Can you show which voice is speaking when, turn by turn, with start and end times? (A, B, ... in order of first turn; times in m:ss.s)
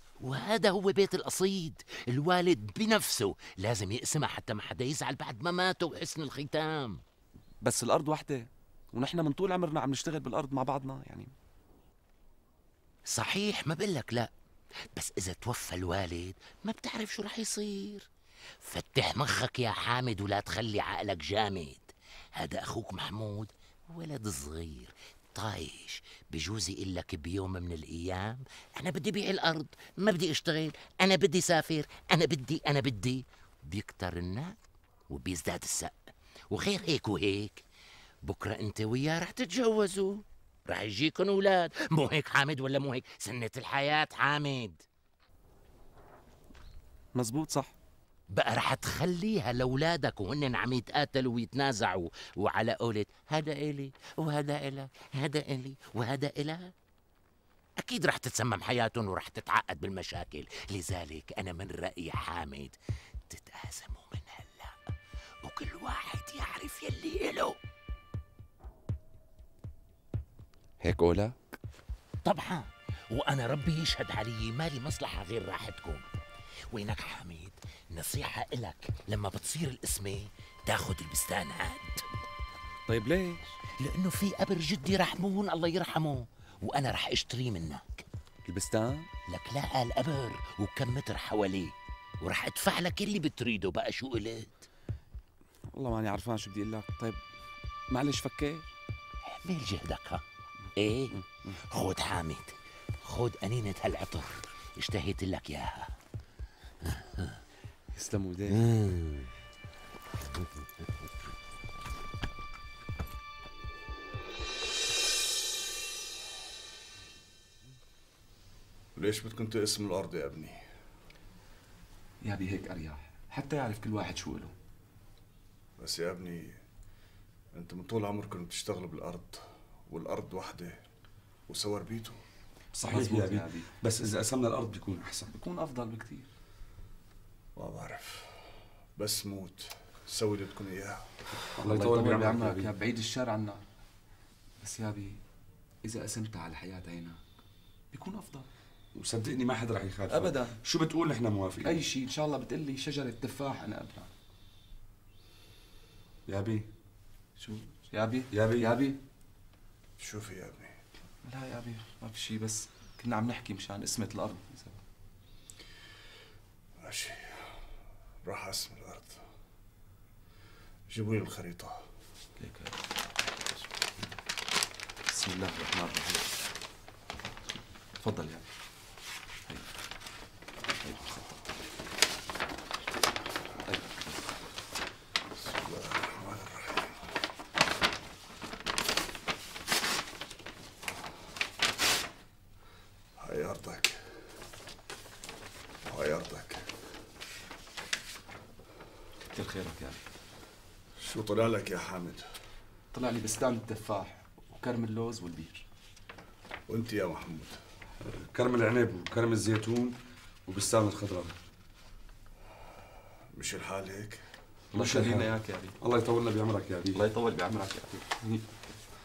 0:00.2-0:07.0 A
0:07.6-0:11.3 B
0:13.1-0:14.3 A
0:15.0-0:18.1 A
0:18.6-0:36.0 A
0:36.5-0:37.6 A
0:38.2-0:44.8 A
0:47.2-0:47.7 B
0:48.3-0:56.7 A
0:57.8-1:02.8 A
1:03.3-1:04.8 A
1:05.4-1:07.6 A
1:10.8-1:11.6 B
1:12.2-1:16.1 A
1:16.7-1:22.1 A
1:22.9-1:23.5 B
1:23.8-1:28.1 A
1:28.5-1:29.1 B
1:29.3-1:34.7 A
1:35.7-1:37.2 B
1:37.9-1:38.7 B
1:39.3-1:40.2 A
1:40.8-1:41.2 A
1:41.1-1:41.6 B
1:41.7-1:45.9 A
1:46.8-1:47.4 A
1:47.9-1:48.6 B
1:48.5-1:49.3 A
1:59.0-2:00.6 C
2:02.2-2:04.5 B
2:05.8-2:06.6 C
2:07.5-2:10.8 C
2:11.5-2:12.2 C
2:12.7-2:13.7 B
2:12.9-2:15.3 D
2:15.4-2:16.3 B
2:17.6-2:18.4 C
2:19.0-2:21.0 C
2:21.4-2:23.6 B
2:21.6-2:22.7 D
2:24.6-2:25.2 B
2:25.8-2:27.2 B
2:27.9-2:28.5 B
2:29.0-2:31.8 D
2:30.1-2:30.6 B
2:31.6-2:34.1 B
2:36.3-2:36.7 D
2:37.4-2:39.0 B
2:38.3-2:38.8 D
2:40.0-2:40.8 C
2:41.2-2:44.8 B
2:46.8-2:47.6 C
2:48.3-2:49.2 C
2:50.9-2:51.8 C
2:52.4-2:52.8 B
2:55.1-2:56.4 B
2:58.0-2:58.4 B
3:00.8-3:01.3 B
3:03.6-3:04.1 B
3:05.4-3:07.0 C
3:13.2-3:14.0 C
3:15.9-3:16.7 C
3:19.3-3:20.0 B
3:21.0-3:22.3 C
3:22.9-3:25.6 B
3:26.7-3:27.6 C
3:28.1-3:30.0 D
3:30.5-3:31.4 D
3:33.4-3:34.2 C
3:34.7-3:35.8 B
3:34.8-3:37.1 D
3:36.9-3:38.4 B